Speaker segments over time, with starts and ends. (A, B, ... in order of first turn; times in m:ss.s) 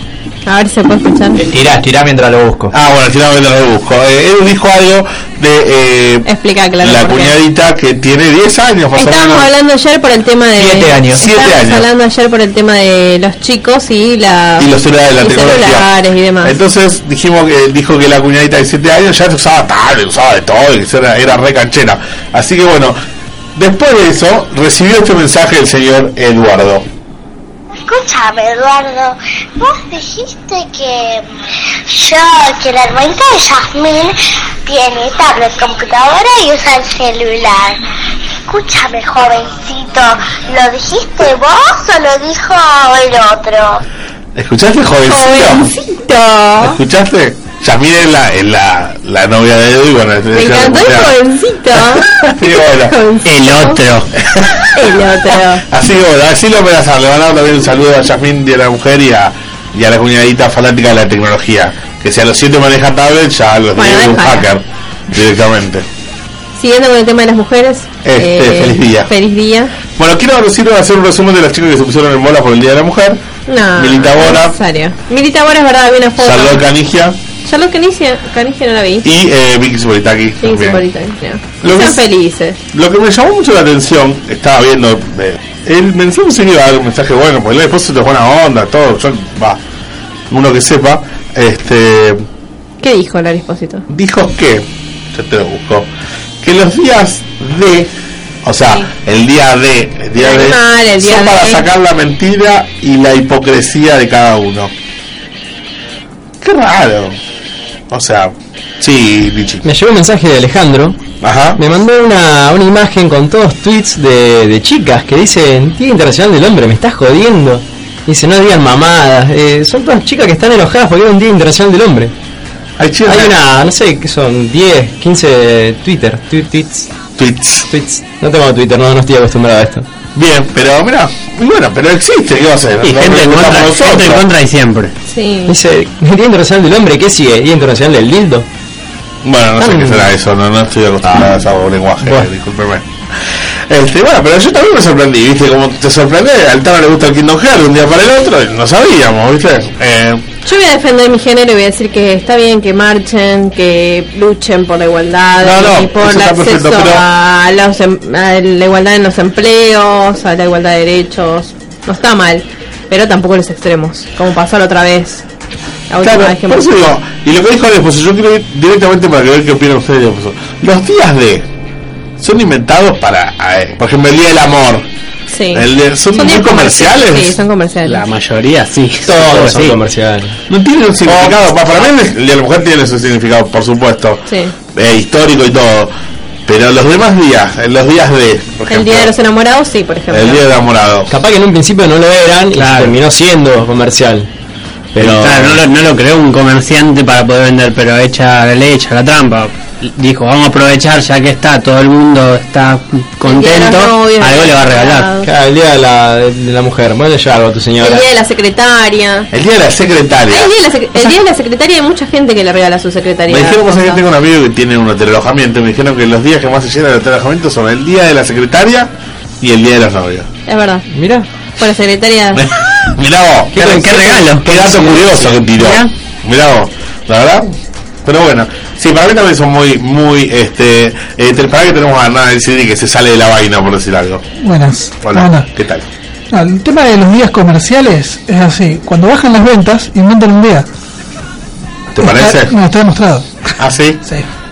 0:00.4-0:01.4 A
0:01.4-0:02.7 B
0:02.7-0:06.3 C
0:06.2-0:07.3 A
0:06.8-0:09.5 C
0:09.0-0:16.5 A
0:10.6-0:11.2 B
0:11.1-0:11.9 C
0:14.6-0:15.9 C
0:16.4-0:23.0 C
0:23.6-0:26.9 C
0:27.8-0:31.3 D
0:31.9-0:37.8 D
0:38.5-0:43.8 D
0:44.3-0:45.7 C
0:45.1-0:46.8 A
0:46.6-0:51.1 C
0:50.3-0:52.1 A
0:51.7-0:53.0 C
0:52.7-0:53.8 A
0:53.2-0:54.1 E
0:54.2-0:55.1 C
0:54.7-0:55.6 A
0:55.7-1:05.8 C
1:03.8-1:04.4 A
1:06.6-1:09.7 A
1:08.0-1:09.1 C
1:09.9-1:13.2 C
1:13.5-1:16.6 A
1:13.8-1:14.6 C
1:16.2-1:17.2 C
1:17.4-1:19.1 A
1:19.0-1:20.8 C
1:20.4-1:22.6 A
1:21.6-1:22.0 C
1:22.7-1:29.6 C
1:30.3-1:32.2 C
1:32.8-1:33.8 A
1:33.9-1:35.9 C
1:36.4-1:37.9 C
1:38.4-1:44.7 C
1:40.2-1:41.6 A
1:46.4-1:47.2 C
1:47.9-1:49.6 C
1:49.6-1:51.0 B
1:51.2-1:51.6 C
1:51.6-2:02.1 B
2:02.8-2:03.4 C
2:03.0-2:06.9 B
2:07.2-2:07.7 C
2:07.7-2:09.9 B
2:10.1-2:14.2 C
2:12.8-2:14.9 E
2:15.1-2:15.5 A
2:15.5-2:18.4 B
2:19.2-2:22.9 C
2:19.6-2:20.1 B
2:23.7-2:30.2 C
2:30.4-2:45.2 A
2:35.4-2:37.0 C
2:45.9-2:46.7 A
2:46.0-2:51.5 C
2:52.2-2:54.9 C
2:55.3-2:58.0 A
2:55.5-2:57.4 C
2:57.8-2:59.8 E
2:59.0-3:00.4 B
3:00.5-3:05.9 C
3:01.0-3:01.4 B
3:04.3-3:04.5 A
3:06.4-3:09.1 C
3:08.7-3:10.4 A
3:10.1-3:11.1 C
3:11.1-3:14.3 B
3:12.6-3:12.9 E
3:14.9-3:15.6 B
3:15.0-3:25.1 E
3:23.2-3:25.3 A
3:25.2-3:28.0 B
3:27.8-3:29.3 A
3:29.3-3:30.5 C
3:30.3-3:34.0 A
3:33.3-3:40.3 C
3:40.5-3:40.8 A
3:40.9-3:41.3 B
3:41.6-3:42.4 A
3:42.3-3:47.5 C
3:43.5-3:45.3 B
3:43.6-3:45.9 E
3:48.0-3:54.2 C
3:54.4-3:55.5 F
3:55.0-3:55.9 C
3:56.3-4:00.7 F
4:01.9-4:02.6 C
4:02.0-4:03.5 F
4:03.6-4:04.0 C